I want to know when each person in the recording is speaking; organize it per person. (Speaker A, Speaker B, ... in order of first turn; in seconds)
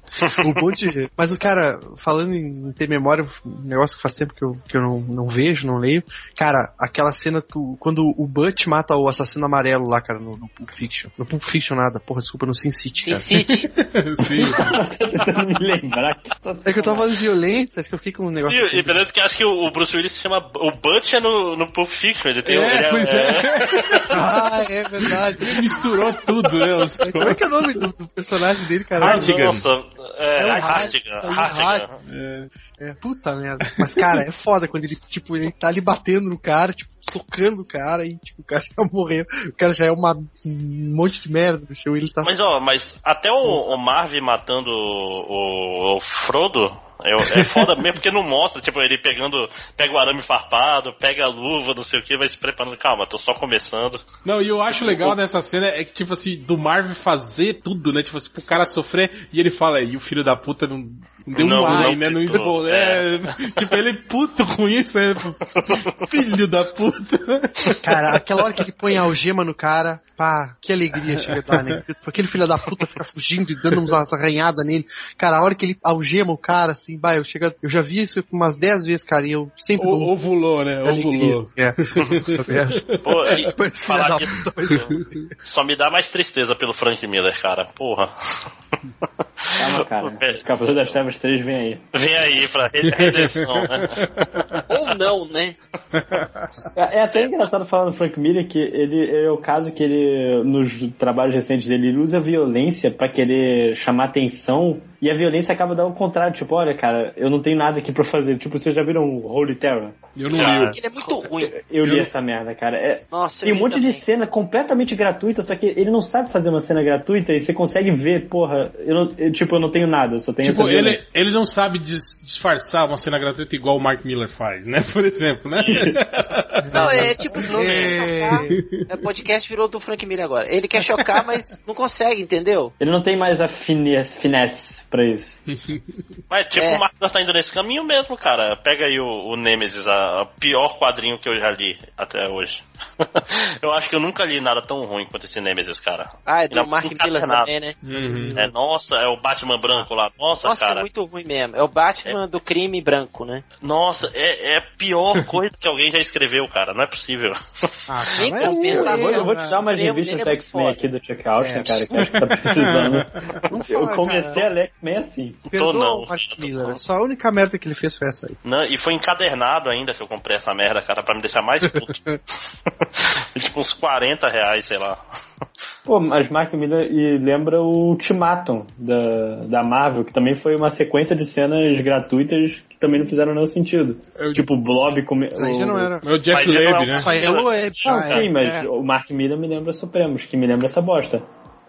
Speaker A: 0.3-13.3, 16.6-19.0, 24.1-25.8, 27.1-29.4, 30.4-31.9, 32.8-42.3, 43.5-43.8, 61.6-61.9, 67.8-80.1, 80.8-85.2, 126.7-128.6, 157.9-159.6, 161.4-162.1, 163.5-164.5, 165.5-168.4, 171.9-172.2, 185.3-186.1, 186.9-188.7
Speaker B: 13.0-13.7, 94.7-95.6, 110.3-111.6, 113.1-114.1, 126.7-132.7, 136.6-136.8, 146.3-148.3, 150.4-153.4, 158.2-160.8
Speaker C: 13.3-14.8, 22.5-27.5, 29.0-29.7, 32.1-32.5, 33.7-34.2, 47.2-47.6, 54.2-68.2, 71.1-71.8, 79.8-83.4, 84.7-85.3, 92.9-94.6, 96.0-96.5, 110.2-110.8, 111.8-112.1, 120.4-127.2, 128.5-129.0, 135.5-136.0, 147.8-148.4, 162.3-163.3, 184.2-184.5, 186.0-187.2
Speaker D: 14.3-17.1, 89.6-91.8, 96.8-110.0, 111.2-121.0, 125.6-126.0, 132.8-135.4, 158.4-163.1, 163.7-165.4, 175.9-186.0, 187.8-191.2
Speaker E: 18.4-24.2, 29.0-31.9, 42.2-54.1, 54.7-55.2, 61.3-63.3, 65.5-66.0, 83.0-88.4, 89.6-91.0, 91.9-94.0, 97.1-97.5, 110.3-110.8, 136.3-147.5, 148.3-150.9, 153.6-157.4, 165.5-166.8, 168.4-172.1, 172.8-175.0, 186.3-188.3